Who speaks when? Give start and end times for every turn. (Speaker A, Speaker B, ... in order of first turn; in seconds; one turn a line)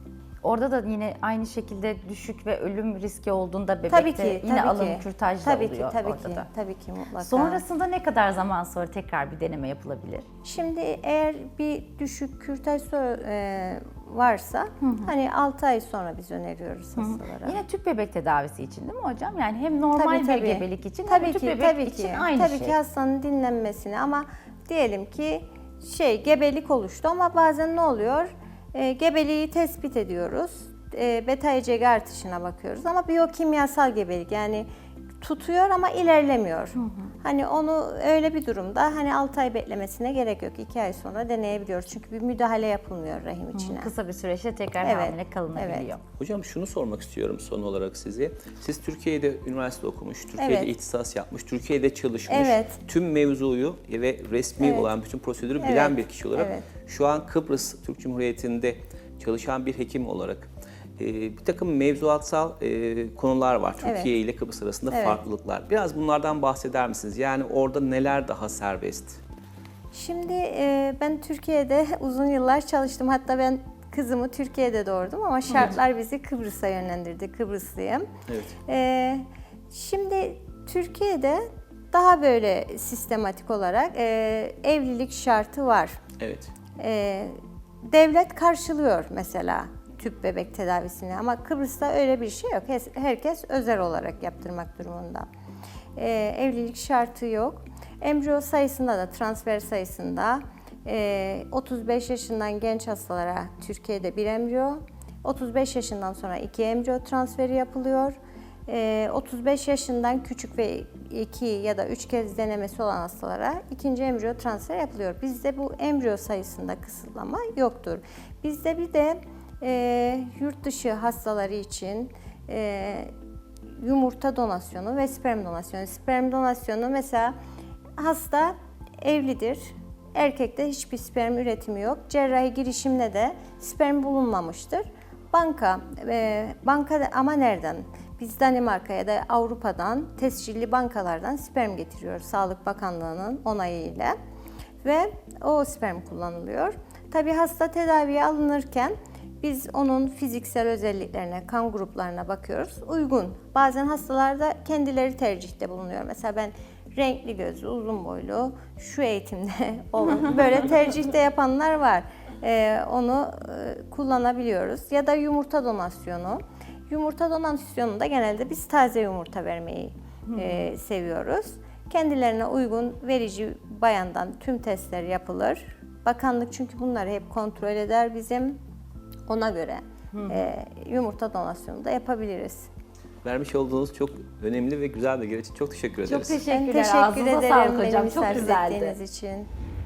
Speaker A: 0.4-6.5
Speaker B: 3.9-7.6
Speaker A: 7.2-10.2
Speaker B: 10.4-17.6
Speaker A: 14.8-15.1
Speaker A: 17.0-22.8
Speaker B: 19.9-34.7
Speaker B: 35.2-43.9
Speaker A: 36.8-37.1
Speaker A: 43.5-46.0
Speaker B: 44.8-45.9
Speaker C: 46.2-69.2
Speaker B: 50.4-50.7
Speaker B: 52.3-52.8
Speaker B: 54.6-54.9
Speaker B: 55.6-56.7
Speaker B: 63.8-64.1
Speaker B: 64.9-65.2
Speaker B: 69.9-78.0
Speaker C: 78.3-78.5
Speaker B: 78.7-86.0
Speaker C: 86.2-86.5
Speaker B: 86.8-95.3
Speaker B: 96.0-123.1
Speaker B: 123.8-127.3
Speaker B: 128.0-144.1
Speaker B: 144.8-178.6
Speaker A: 170.3-170.7
Speaker B: 179.3-182.7
Speaker A: 180.1-180.4
Speaker C: 183.2-186.4
Speaker A: 186.0-188.9
Speaker B: 186.5-189.5